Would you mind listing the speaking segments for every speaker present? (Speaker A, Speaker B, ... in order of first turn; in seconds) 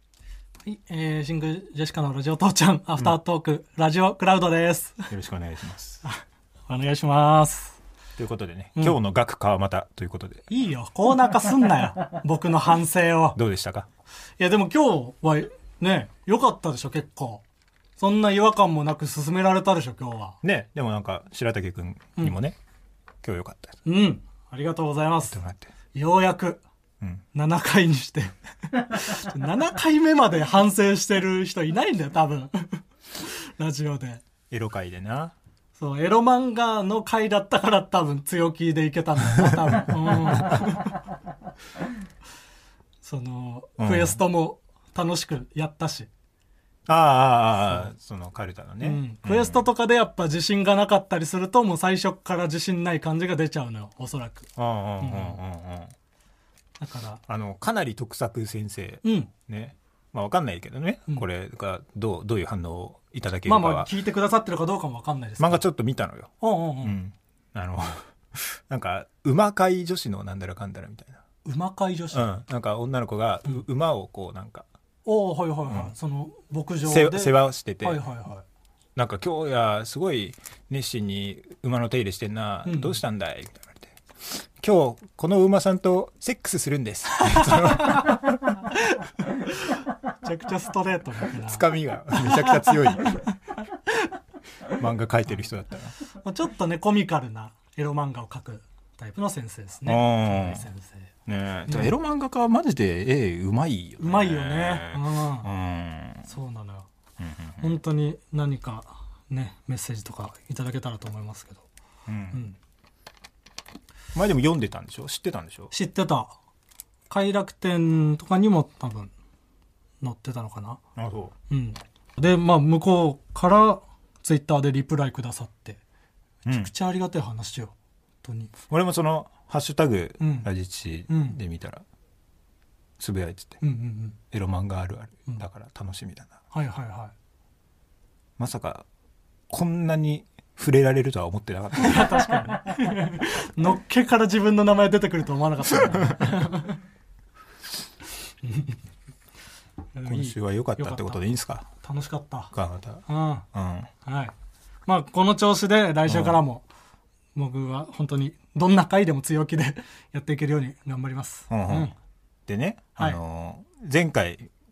Speaker A: 0.7-5.1, 6.7-7.8, 10.5-13.4, 14.4-17.4, 18.0-20.4, 23.9-25.4, 25.9-26.6, 27.3-34.2, 35.7-41.0, 43.0-46.1, 47.6-47.9, 48.8-54.5, 55.0-55.4, 56.8-57.2, 59.0-59.3, 63.5-65.6, 66.4-67.0, 71.4-72.3, 75.0-78.4, 82.6-83.0, 87.3-91.6, 92.1-94.1, 96.1-101.1, 101.7-101.9, 104.0-105.5, 106.3-106.8, 107.6-111.6, 115.7-116.3, 117.1-119.1, 120.0-120.8, 121.5-125.8, 126.4-128.5, 130.2-130.5, 131.1-131.4, 133.6-134.2, 136.5-137.1, 141.8-146.8, 148.4-148.8, 149.9-151.2, 151.8-152.5, 153.1-153.4, 154.0-154.3, 154.9-156.6, 157.3-161.9
Speaker B: 5.1-6.0, 8.2-10.4, 13.3-13.9, 20.4-22.6, 23.2-23.8, 25.3-25.7, 34.5-35.3, 40.2-40.6, 43.8-44.2, 46.9-49.6, 54.6-55.9, 57.3-63.9, 65.4-66.3, 66.8-71.2, 72.1-74.6, 76.8-78.0, 79.0-88.4, 91.4-93.2, 94.7-95.9, 99.8-100.7, 101.3-106.3, 107.2-107.8, 112.1-112.4, 114.1-115.7, 121.0-121.3, 126.5-126.7, 128.7-131.8, 133.0-133.6, 134.3-136.3, 138.4-138.8, 139.5-142.2, 150.1-151.7, 152.5-153.9, 156.1-156.4, 161.5-161.9, 162.5-164.5